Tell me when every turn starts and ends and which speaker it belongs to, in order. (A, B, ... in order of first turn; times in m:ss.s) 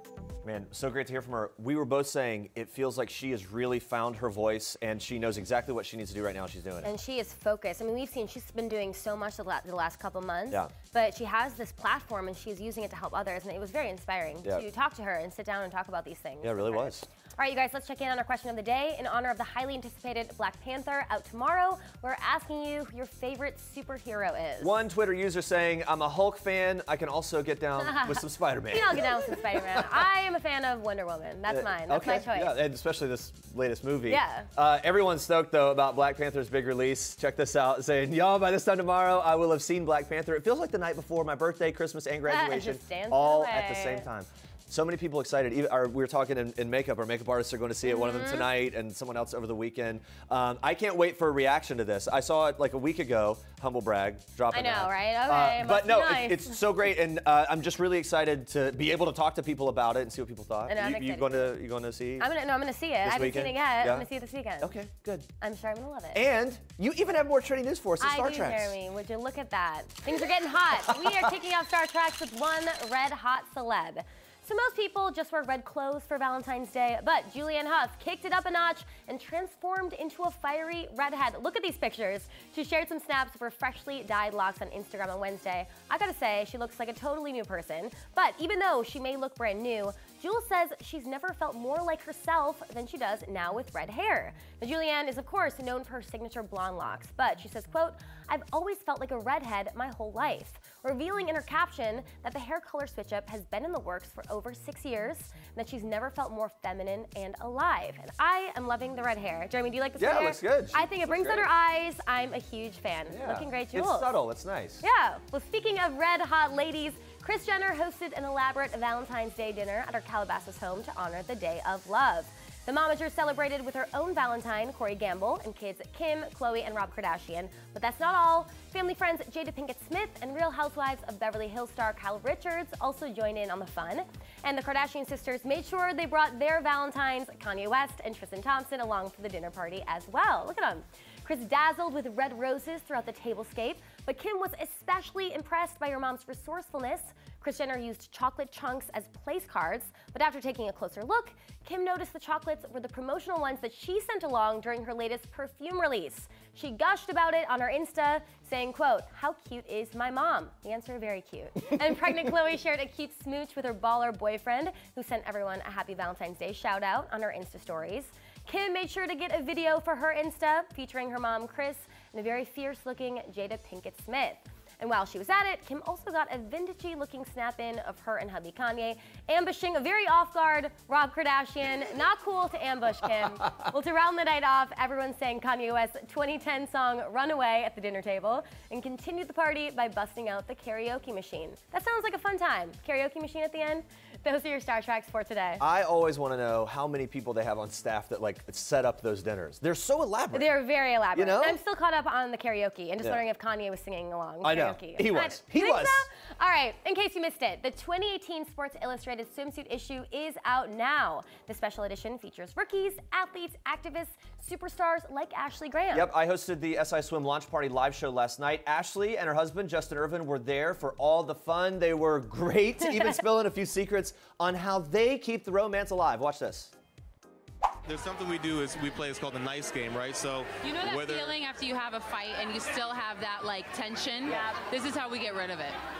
0:00.4-0:06.9 A
0:06.8-0:24.8 B
0:16.4-0:17.1 A
0:24.6-0:30.0 A
0:27.8-0:32.6 B
0:31.5-1:02.3 A
0:34.1-0:34.5 B
0:42.3-0:44.0 B
0:47.8-0:48.5 B
0:54.5-0:56.6 B
1:00.7-1:01.6 B
1:02.2-1:04.7 B
1:03.0-1:04.0 A
1:04.6-1:05.3 A
1:05.4-1:06.2 B
1:06.1-1:08.7 A
1:08.0-1:54.1 B
1:10.9-1:11.3 A
1:50.0-1:51.5 A
1:53.1-1:54.8 A
1:54.8-3:15.6 B
3:15.6-3:20.5 A
3:20.3-3:36.1 B
3:21.1-3:21.6 A
3:24.4-3:26.0 A
3:35.9-3:46.7 A
3:42.8-3:43.2 B
3:47.8-3:51.4 C
3:50.6-3:55.8 D